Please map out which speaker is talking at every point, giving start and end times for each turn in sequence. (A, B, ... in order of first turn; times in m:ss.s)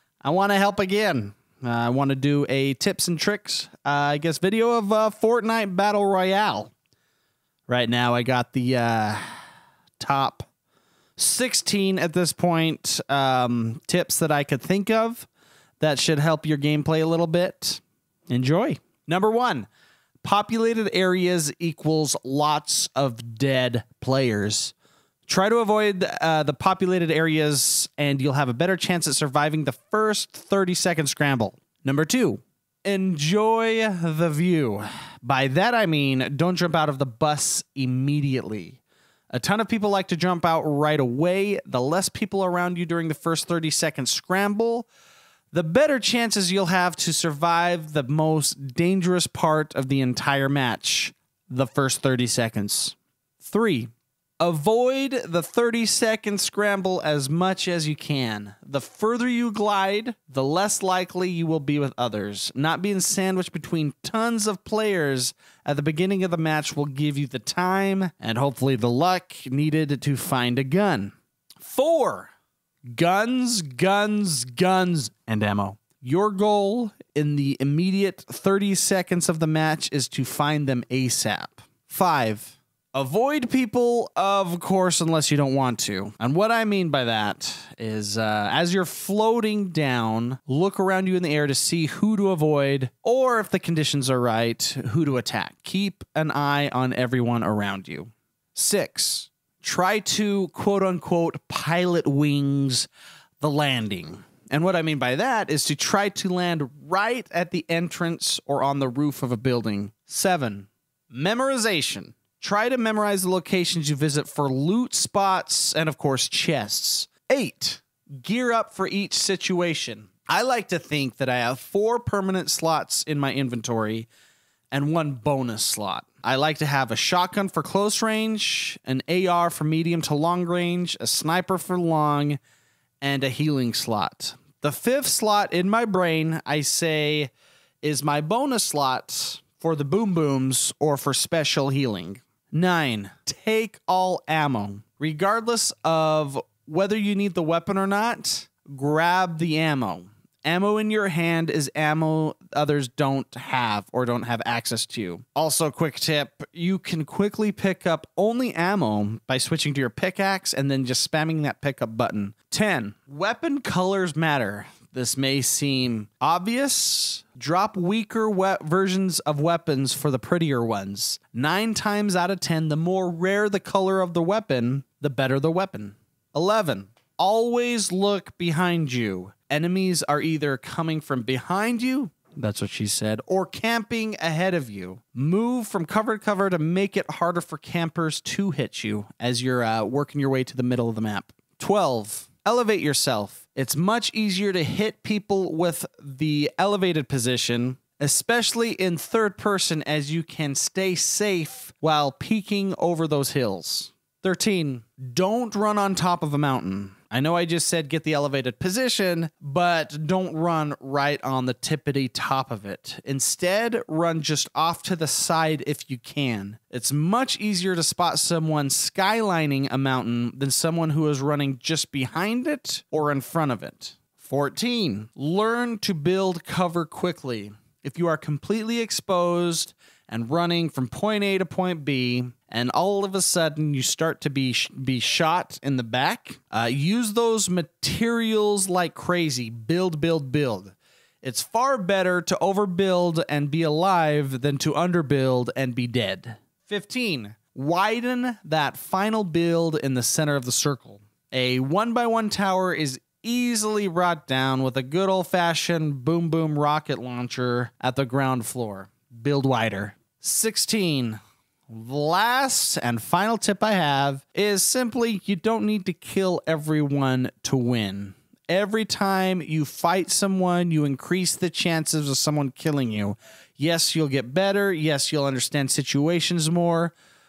0:00.2-0:06.7 A
0:07.7-0:09.4 A
0:10.0-0:10.5 A
0:11.2-0:15.3 A
0:15.8-0:19.7 A
0:20.2-0:24.7 A
0:25.3-0:44.9 A
0:45.5-1:12.3 A
1:12.8-1:42.9 A
1:43.4-2:04.1 A
2:04.7-2:12.4 A
2:13.0-4:36.9 A